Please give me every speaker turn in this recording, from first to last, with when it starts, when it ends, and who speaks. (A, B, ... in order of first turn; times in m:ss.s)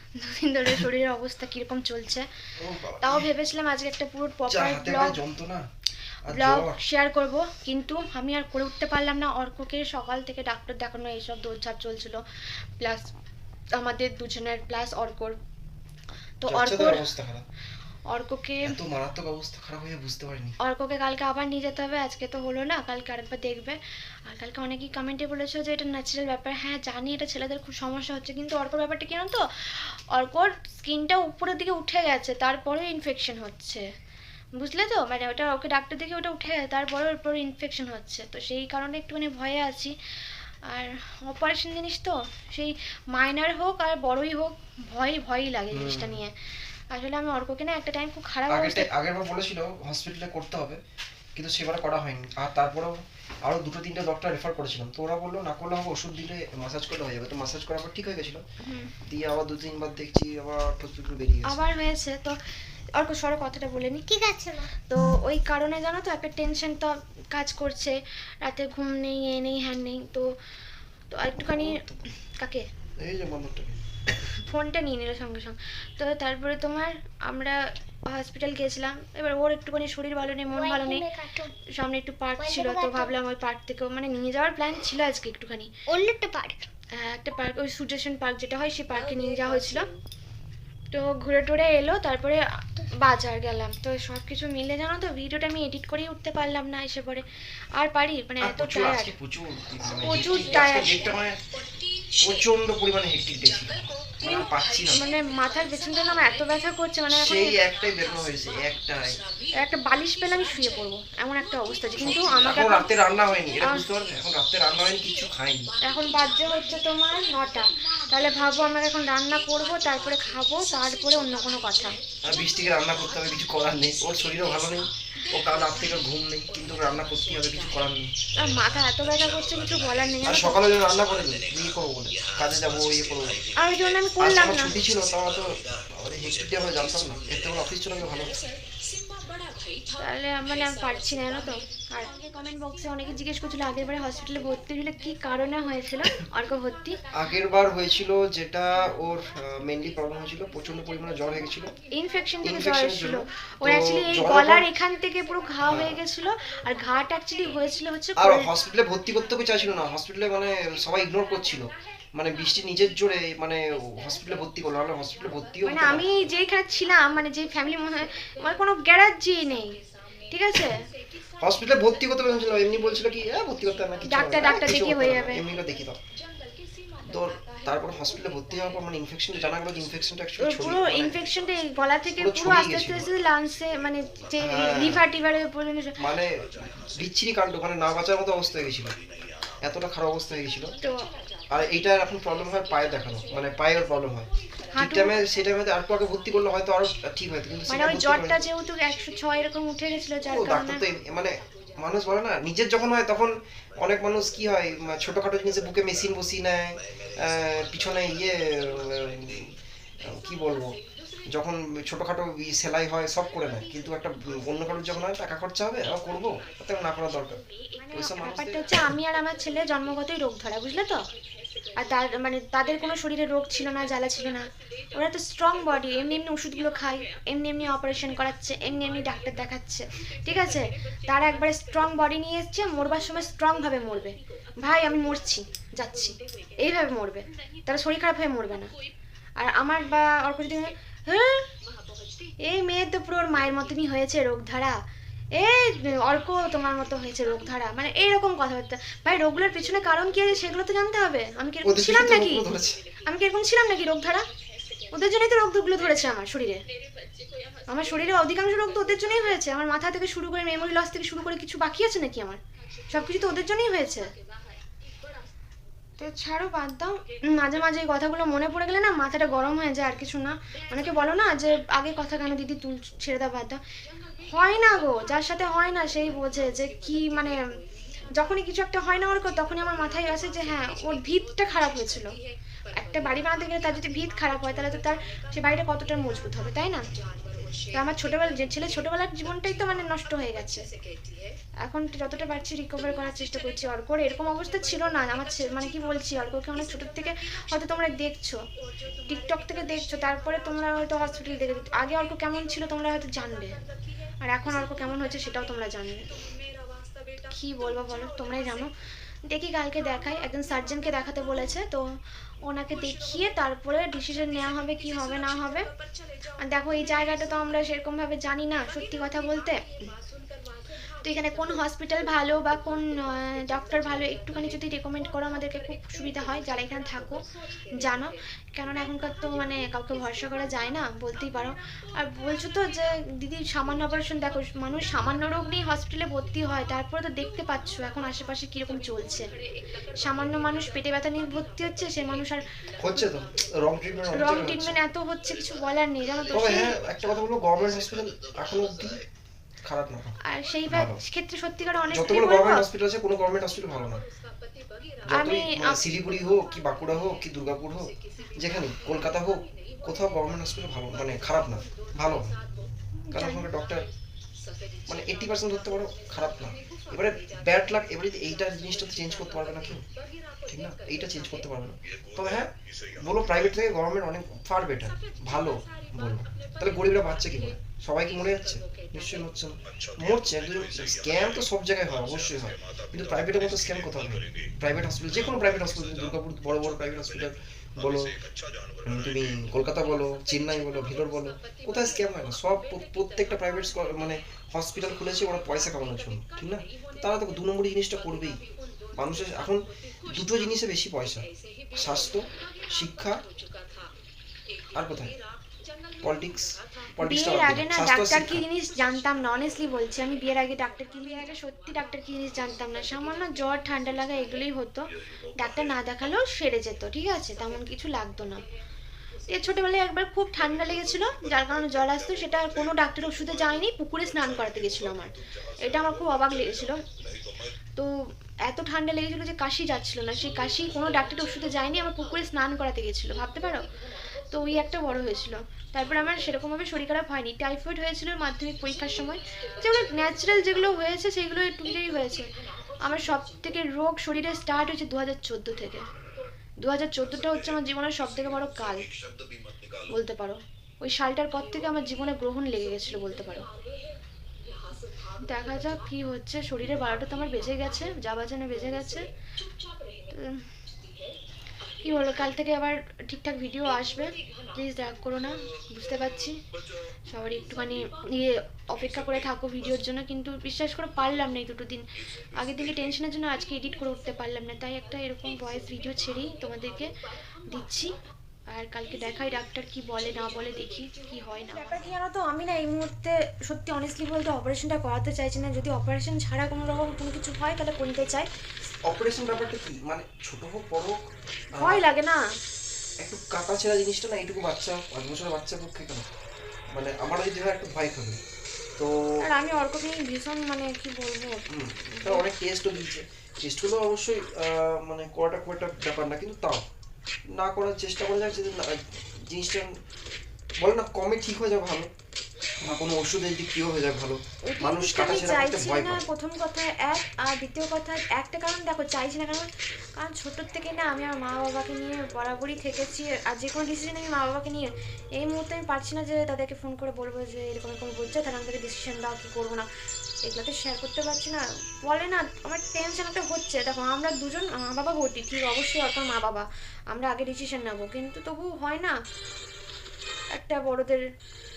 0:00.2-0:02.3 A
0:02.6-0:03.3 B
0:03.0-0:05.2 A
0:04.5-0:05.6 B
0:06.3-0:06.8 B
0:06.3-0:12.2 A
0:12.8-0:13.1 A
0:13.8-0:15.4 A
0:16.4-0:17.1 A
0:16.5-0:17.4 B
0:18.1-0:18.8 A
0:18.6-0:20.6 B
0:20.6-0:33.8 A
0:34.6-0:39.9 A
0:40.7-0:46.3 A
0:45.7-0:46.2 B
0:46.9-0:48.9 A
0:48.5-0:50.8 B
0:51.3-0:58.4 B
0:58.6-0:58.9 A
0:59.1-1:01.6 B
1:01.4-1:02.4 A
1:02.9-1:04.0 A
1:04.1-1:04.7 C
1:04.8-1:10.3 A
1:11.1-1:12.6 A
1:11.4-1:12.0 B
1:13.0-1:13.8 B
1:14.5-1:21.0 A
1:20.5-1:21.5 C
1:21.8-1:25.7 A
1:22.4-1:23.1 C
1:25.9-1:26.7 C
1:27.0-1:29.9 A
1:30.9-1:37.2 A
1:37.8-1:39.1 A
1:38.4-1:41.4 B
1:39.8-1:41.2 A
1:42.2-1:45.0 B
1:44.2-1:47.6 A
1:47.1-1:49.2 B
1:49.6-1:52.9 A
1:52.0-1:55.7 B
1:53.6-1:53.8 A
1:55.8-2:02.0 A
2:02.2-2:08.1 B
2:08.4-2:10.6 A
2:10.2-2:13.4 B
2:13.6-2:14.8 A
2:14.2-2:18.4 B
2:20.0-2:27.0 A
2:27.1-2:31.7 B
2:31.9-2:38.4 A
2:32.4-2:34.6 B
2:35.6-2:36.0 B
2:38.2-2:46.1 B
2:45.6-2:49.8 A
2:50.3-2:50.8 A
2:51.4-2:56.0 B
2:54.0-2:55.4 A
2:57.0-3:01.2 B
3:00.4-3:06.0 A
3:02.1-3:03.1 B
3:04.4-3:05.1 B
3:06.0-3:09.0 B
3:09.6-3:10.7 B
3:11.5-3:18.4 B
3:14.7-3:15.2 A
3:17.7-3:20.8 A
3:20.3-3:29.5 B
3:30.0-3:30.8 B
3:31.3-3:38.9 B
3:37.8-3:41.0 A
3:41.8-3:58.7 A
3:59.4-4:01.4 A
4:02.4-4:04.8 A
4:05.4-4:12.4 A
4:11.6-4:12.8 B
4:13.0-4:14.2 A
4:14.9-4:16.6 A
4:17.7-4:24.1 A
4:26.0-4:33.6 A
4:34.2-4:37.4 A
4:38.2-4:42.1 A
4:42.7-4:46.8 A
4:47.7-4:50.6 A
4:51.6-4:58.4 A
4:59.1-5:03.6 A
5:04.2-5:06.1 A
5:07.3-5:08.7 A
5:09.3-5:11.8 A
5:12.4-5:15.7 A
5:16.5-5:19.6 A
5:21.0-5:27.2 A
5:27.8-5:39.3 A
5:40.0-5:43.0 A
5:42.8-5:44.8 B
5:44.1-5:46.8 A
5:46.3-5:49.0 B
5:49.6-5:50.1 B
5:50.3-5:52.7 A
5:50.7-5:51.0 B
5:51.9-5:54.0 B
5:55.1-6:02.4 B
5:55.1-5:55.8 A
6:03.0-6:03.5 A
6:03.1-6:03.8 B
6:04.9-6:09.8 B
6:10.5-6:28.1 B
6:28.8-6:38.4 B
6:39.0-6:43.2 B
6:44.7-6:45.2 B
6:46.0-6:48.4 B
6:47.0-6:58.4 A
6:59.3-7:06.8 A
7:08.4-7:13.7 A
7:14.3-7:22.3 A
7:22.8-7:25.8 A
7:26.6-7:28.8 A
7:29.9-7:33.4 A
7:35.2-7:39.1 A
7:40.1-7:40.4 A
7:41.8-7:46.3 A
7:47.1-7:51.8 A
7:52.4-7:56.9 A
7:57.5-7:57.9 A
7:58.5-8:08.3 A
8:08.9-8:11.0 B
8:11.6-8:12.2 A
8:13.0-8:16.0 B
8:16.7-8:18.2 B
8:19.2-8:21.4 A
8:21.5-8:26.6 B
8:22.0-8:22.2 A
8:27.4-8:29.7 B
8:30.6-8:31.9 B
8:32.6-8:36.0 B
8:34.5-8:44.7 A
8:45.2-8:49.6 A
8:50.3-8:58.9 A
9:00.3-9:01.0 A